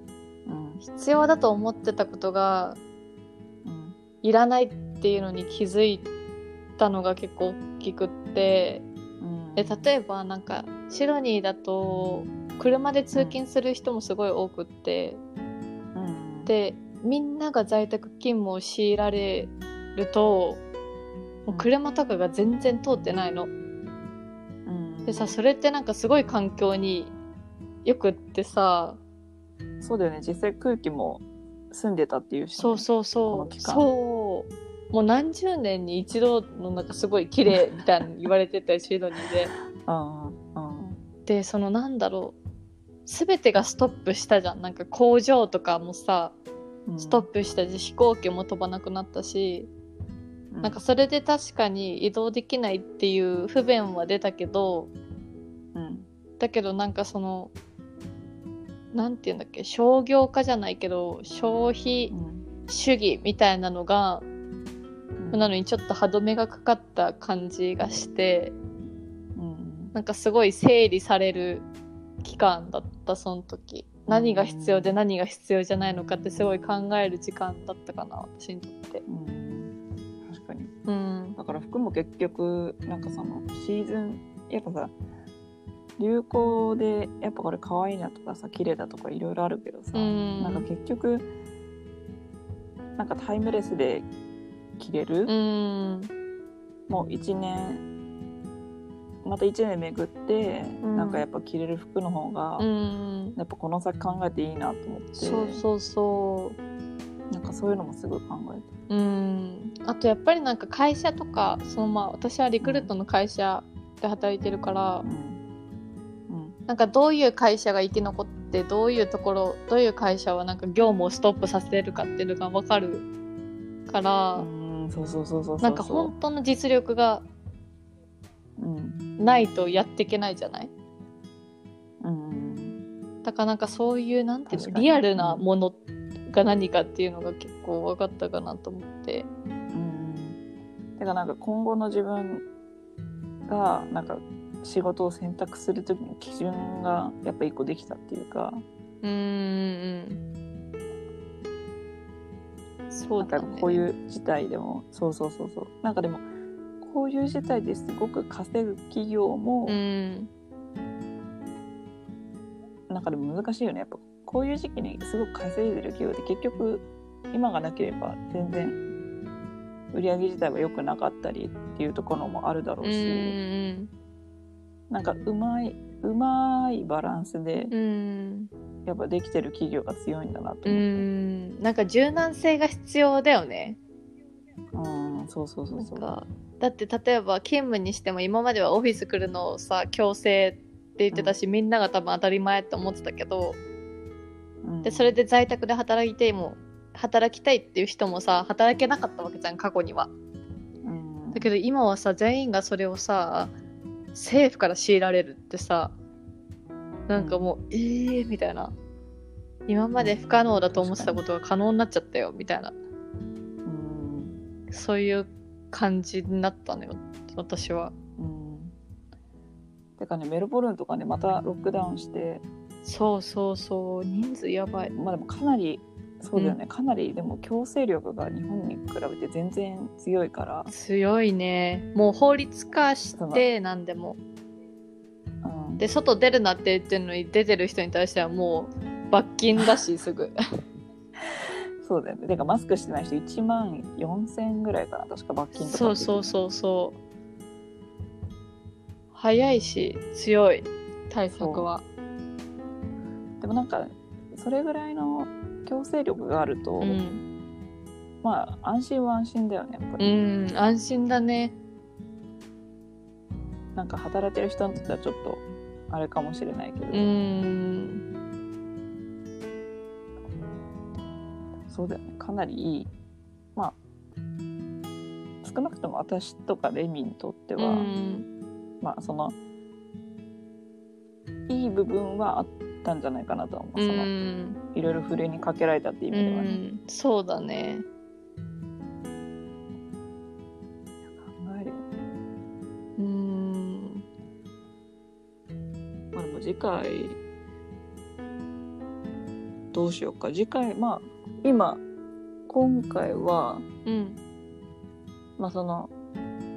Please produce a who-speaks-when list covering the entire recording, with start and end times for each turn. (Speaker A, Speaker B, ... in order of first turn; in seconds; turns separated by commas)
Speaker A: 0.5-0.8, Speaker B: 0.8-2.8, Speaker A: 3.6-4.0, Speaker B: 4.2-6.1, Speaker B: 6.8-8.9, Speaker A: 9.2-9.9, Speaker B: 9.6-15.2, Speaker A: 13.1-13.4, Speaker A: 15.9-16.5, Speaker B: 16.5-20.6, Speaker B: 21.5-23.5, Speaker A: 24.6-25.4, Speaker B: 25.1-27.1, Speaker B: 27.9-29.0, Speaker A: 29.8-33.9, Speaker B: 32.5-39.5, Speaker A: 39.8-41.0, Speaker B: 41.2-42.4, Speaker B: 43.0-46.4, Speaker A: 46.9-47.3, Speaker B: 47.0-49.7, Speaker A: 50.5-50.8, Speaker B: 50.6-54.9, Speaker A: 55.8-56.1, Speaker B: 56.4-57.5, Speaker B: 58.9-62.1, Speaker A: 62.1-62.5, Speaker B: 62.7-64.3, Speaker A: 65.2-65.5, Speaker B: 65.3-68.5, Speaker A: 69.4-70.0, Speaker B: 69.9-71.7, Speaker B: 72.2-79.0, Speaker A: 74.1-75.0, Speaker A: 79.1-80.7, Speaker B: 80.9-81.4, Speaker A: 81.4-84.9, Speaker A: 86.0-91.2, Speaker B: 89.9-90.7, Speaker A: 93.0-94.1, Speaker A: 94.8-95.3, Speaker B: 95.2-96.1, Speaker A: 96.9-97.8, Speaker A: 99.2-102.7, Speaker B: 100.8-101.2, Speaker B: 102.6-103.4, Speaker A: 103.4-105.6, Speaker B: 105.1-106.6, Speaker A: 107.3-108.7, Speaker B: 108.9-115.0, Speaker A: 112.6-112.9, Speaker A: 115.0-115.4, Speaker A: 116.3-116.6, Speaker B: 116.7-123.1, Speaker B: 123.9-124.5, Speaker A: 124.4-126.1, Speaker B: 125.6-127.2, Speaker A: 128.6-129.0, Speaker B: 129.2-130.7, Speaker A: 132.0-132.8, Speaker B: 133.2-139.3, Speaker A: 134.5-135.4, Speaker A: 139.7-140.4, Speaker A: 141.0-142.5, Speaker A: 143.5-148.6, Speaker B: 149.0-150.2, Speaker B: 152.9-153.9, Speaker A: 153.2-156.2, Speaker A: 156.8-159.8, Speaker B: 159.7-160.3, Speaker A: 162.9-168.8, Speaker A: 169.9-173.4, Speaker B: 172.8-173.9, Speaker A: 174.9-177.7, Speaker B: 177.7-178.5, Speaker A: 178.8-180.9, Speaker B: 180.7-183.8, Speaker A: 184.8-186.2, Speaker B: 185.8-193.6, Speaker A: 194.6-195.2, Speaker B: 194.8-200.1, Speaker A: 200.8-201.5, Speaker B: 201.3-203.5, Speaker B: 204.1-205.9, Speaker B: 207.1-208.8, Speaker A: 207.1-207.5, Speaker B: 209.7-212.8, Speaker A: 210.0-211.2, Speaker A: 213.7-214.3, Speaker B: 214.7-217.9, Speaker A: 218.2-218.8, Speaker A: 220.0-222.4, Speaker B: 222.8-224.9, Speaker A: 224.9-230.7, Speaker B: 230.7-234.2, Speaker A: 233.2-233.5, Speaker A: 235.4-235.8, Speaker B: 235.8-240.3, Speaker A: 241.8-246.3, Speaker B: 245.5-247.0, Speaker B: 249.1-251.8, Speaker A: 251.3-251.7, Speaker A: 253.4-257.0, Speaker B: 256.8-257.2, Speaker A: 258.2-260.1, Speaker B: 260.0-261.5, Speaker A: 263.8-267.1, Speaker B: 266.9-268.0, Speaker A: 271.7-272.9, Speaker A: 275.4-277.9, Speaker B: 277.6-278.3, Speaker A: 278.8-279.4, Speaker A: 281.5-284.1, Speaker B: 283.8-284.6, Speaker A: 284.7-286.6, Speaker B: 286.1-287.9, Speaker A: 291.0-291.8, Speaker B: 293.0-294.0, Speaker A: 296.1-297.2, Speaker A: 299.7-301.8, Speaker A: 302.5-303.7, Speaker B: 303.8-304.2, Speaker A: 305.4-305.9